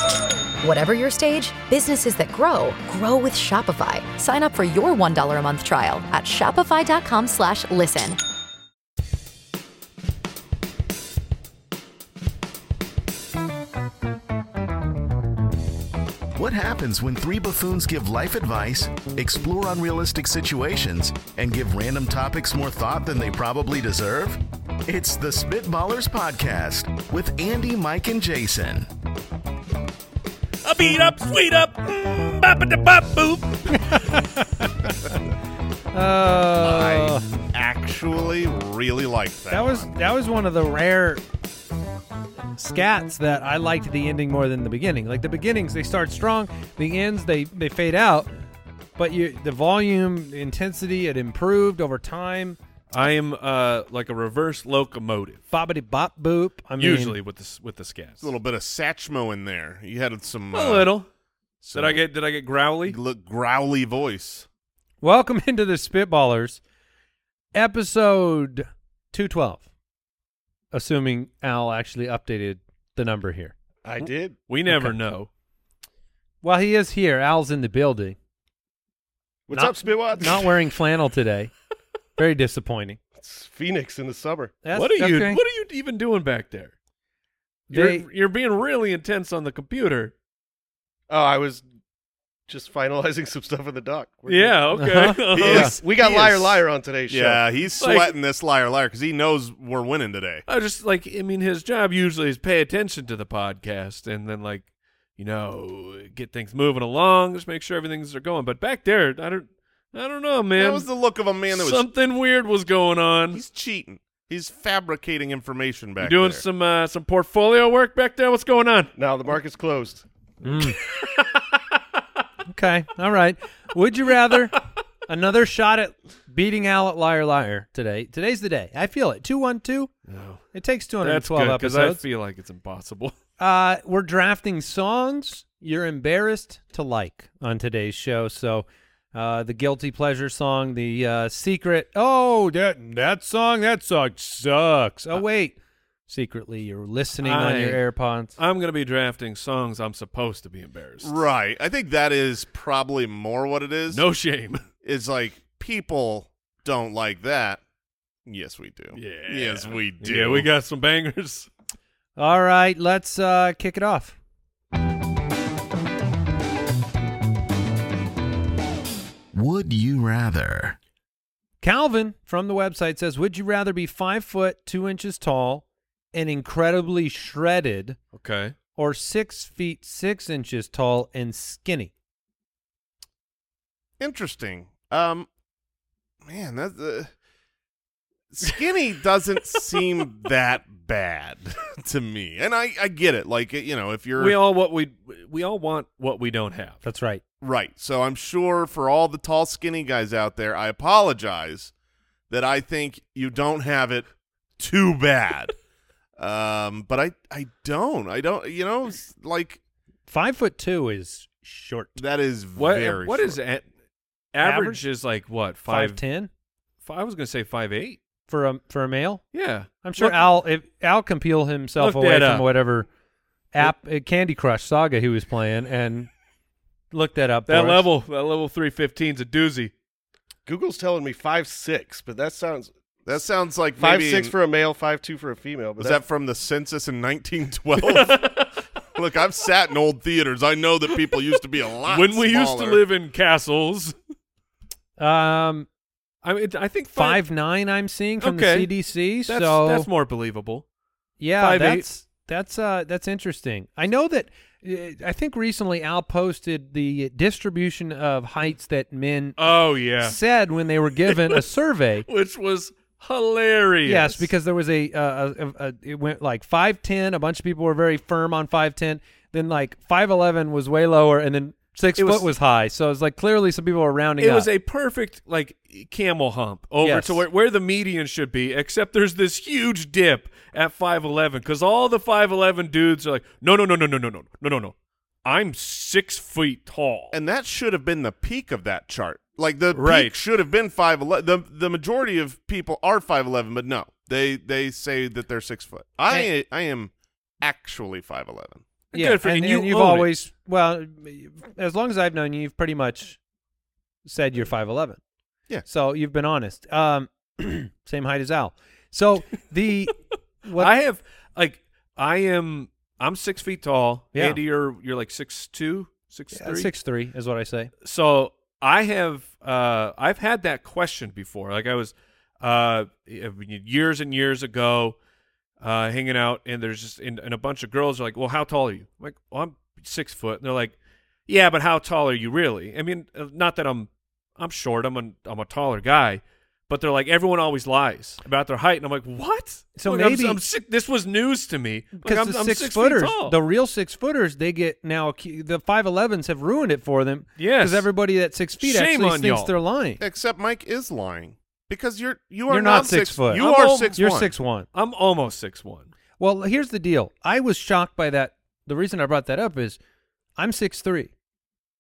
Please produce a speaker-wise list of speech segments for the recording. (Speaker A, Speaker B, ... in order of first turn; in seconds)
Speaker A: 0.6-8.2
Speaker B: 16.4-28.9, 169.3-170.8
Speaker C: 30.6-34.1, 52.9-55.4, 56.8-58.3, 60.5-61.1, 61.7-63.0, 74.5-75.3, 84.7-86.7, 87.7-90.1, 94.3-95.8, 97.8-98.1, 100.5-110.9, 111.5-113.4, 116.0-118.9, 121.0-121.4, 130.1-130.4, 131.0-133.2, 147.2-147.8, 148.4-151.1, 153.9-154.6, 158.9-161.5, 178.1-178.6, 194.2-196.8, 212.6-213.7, 214.3-216.0, 216.8-218.0, 219.3-220.2, 221.8-222.5, 227.5-229.7, 237.8-238.5, 241.9-243.9, 246.2-247.2, 248.2-248.7, 249.3-250.7, 251.4-251.8, 259.4-260.2, 261.1-261.4, 262.1-264.3, 272.0-272.3, 274.2-284.7, 285.2-287.1, 289.7-290.1, 298.9-300.1, 310.6-316.7, 317.8-325.0, 325.6-330.8, 331.3-343.4, 347.4-347.9, 348.6-349.5, 353.3-354.0, 354.7-355.9
Speaker D: 33.8-34.7, 35.9-37.3, 39.5-41.2, 42.6-48.3, 49.0-52.6, 55.5-57.2, 65.0-66.6, 67.5-69.6, 70.7-74.0, 74.7-75.0, 76.4-78.2, 79.5-81.5, 82.2-83.0, 84.6-85.4, 87.7-88.0, 94.8-95.8, 120.4-120.8, 122.5-124.6, 125.1-129.9, 130.5-132.0, 133.4-145.6, 146.1-148.3, 162.2-164.2, 171.6-178.0, 178.8-181.9, 196.8-197.2, 210.1-212.0, 214.4-214.8, 215.7-216.3, 218.3-219.2, 219.8-222.9, 223.5-226.1, 226.9-227.9, 245.0-245.7, 246.9-249.9, 251.2-259.4, 260.0-262.1, 263.9-274.5, 276.8-277.2, 298.9-303.2, 304.1-305.0, 305.7-310.7, 314.1-314.4, 316.3-317.7, 339.8-340.4, 342.0-350.0, 352.5-354.7, 356.2-359.8, 360.4-361.1
Speaker E: 36.6-39.9, 58.2-60.9, 61.6-62.0, 62.9-64.5, 95.4-100.4, 110.6-111.9, 113.3-116.4, 151.0-154.1, 154.8-157.6, 158.3-160.5, 184.0-185.3, 186.2-187.1, 188.3-194.4, 197.4-201.7, 202.3-205.5, 206.2-209.6, 212.0-213.4, 233.1-234.3, 235.8-238.4, 238.9-242.8, 287.1-298.6, 350.0-354.3
Speaker F: 73.8-74.4, 79.5-80.5, 83.2-84.6, 91.1-91.6, 92.5-94.6, 95.3-97.5, 119.0-120.0, 230.5-232.7, 233.8-236.0